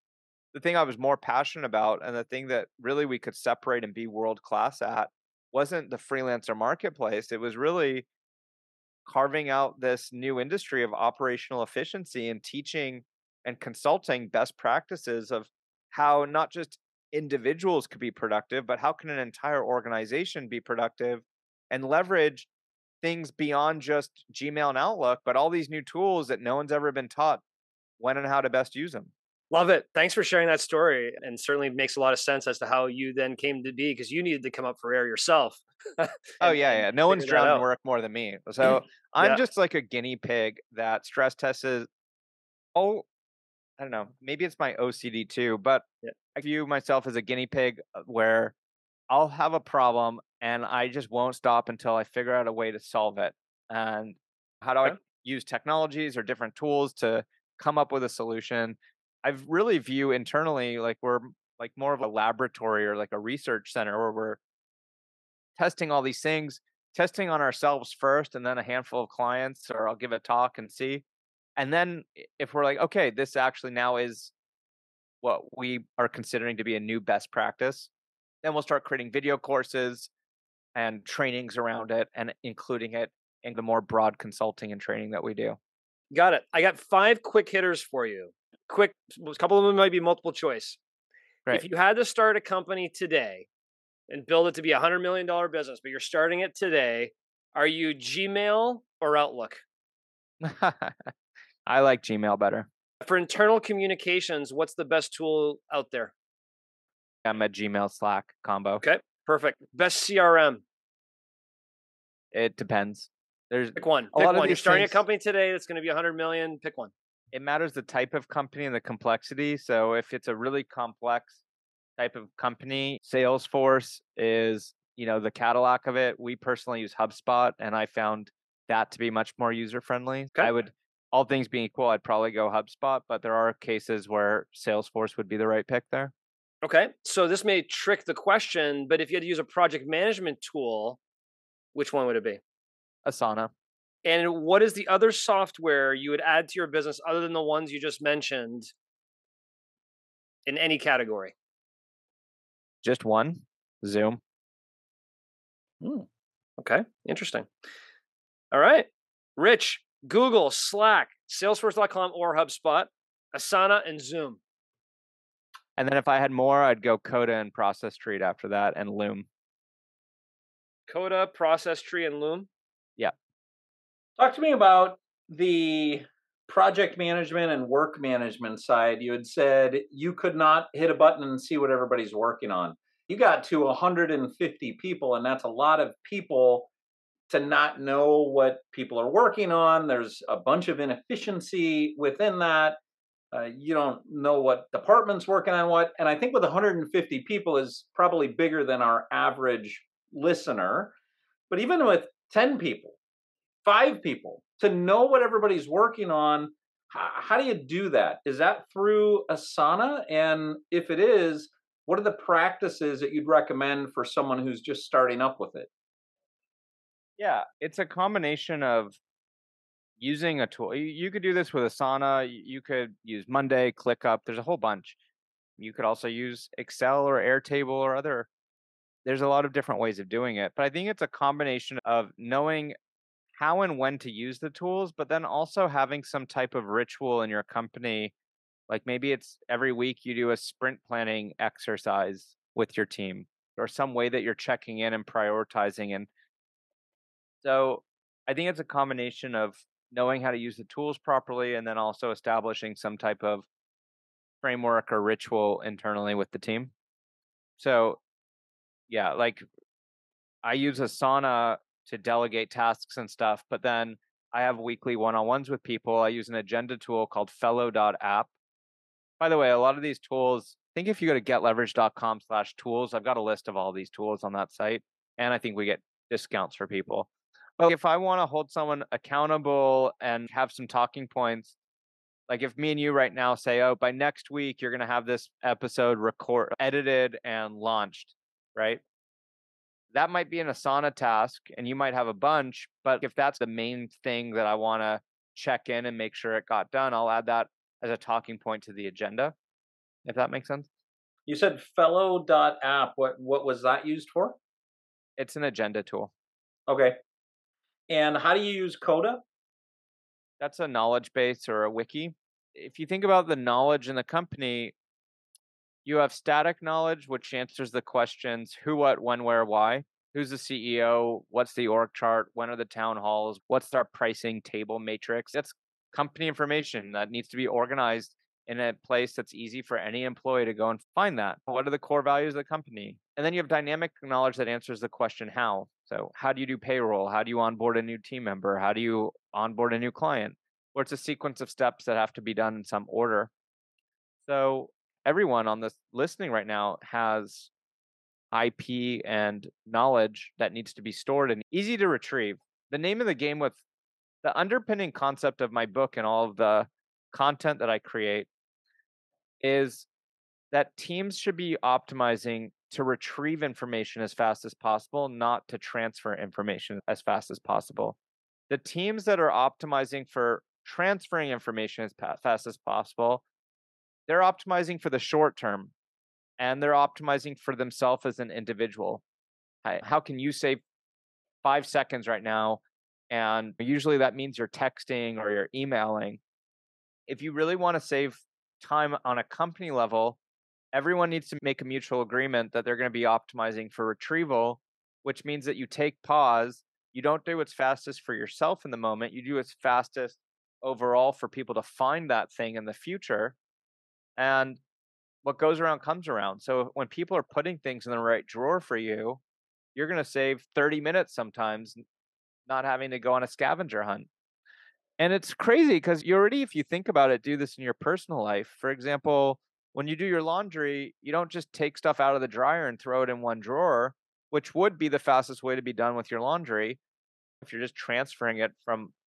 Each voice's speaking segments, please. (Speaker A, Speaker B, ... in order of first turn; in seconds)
Speaker A: 0.5-8.1, 9.1-22.5, 23.0-27.4, 28.0-29.1, 36.4-41.9, 42.8-43.1, 43.8-48.5, 49.1-64.4, 65.6-71.0, 71.6-74.3, 75.2-77.9, 78.4-80.1, 80.8-85.6, 100.4-101.1, 101.7-102.7, 107.2-108.8, 112.3-115.0, 117.3-121.4, 122.0-136.1, 143.1-143.5, 152.8-154.2, 165.8-169.3, 217.2-219.0, 220.0-225.0, 225.6-228.3, 229.1-232.8, 233.4-238.1, 238.7-246.1, 247.4-253.5, 254.4-256.7, 257.6-258.0, 258.9-259.4, 260.4-268.3, 269.2-281.6, 282.3-288.8, 289.9-299.3, 300.1-300.7, 305.2-306.1, 310.4-314.7, 315.9-343.3, 344.2-347.5, 348.3-353.6, 354.2-358.3, 359.4-359.9, 360.5-368.0, 368.5-373.2, 374.1-375.7, 376.4-379.0, 379.6-380.6, 381.4-386.2, 387.1-390.2, 390.7-403.4, 404.2-404.6, 405.2-409.2, 409.8-411.8, 412.5-414.1, 415.0-426.8, 427.4-428.9
Speaker B: 29.5-37.6, 86.1-90.8, 91.5-93.5, 94.1-99.6, 103.0-106.1, 108.8-110.6, 113.8-116.9, 136.6-141.0, 141.8-142.4, 144.1-148.7, 150.5-151.3, 156.6-157.5, 158.5-164.4, 170.9-172.5
Speaker C: 174.2-186.7, 187.3-192.8, 193.3-200.9, 201.5-203.0, 203.7-215.7, 301.3-304.4, 306.7-307.0, 307.9-309.2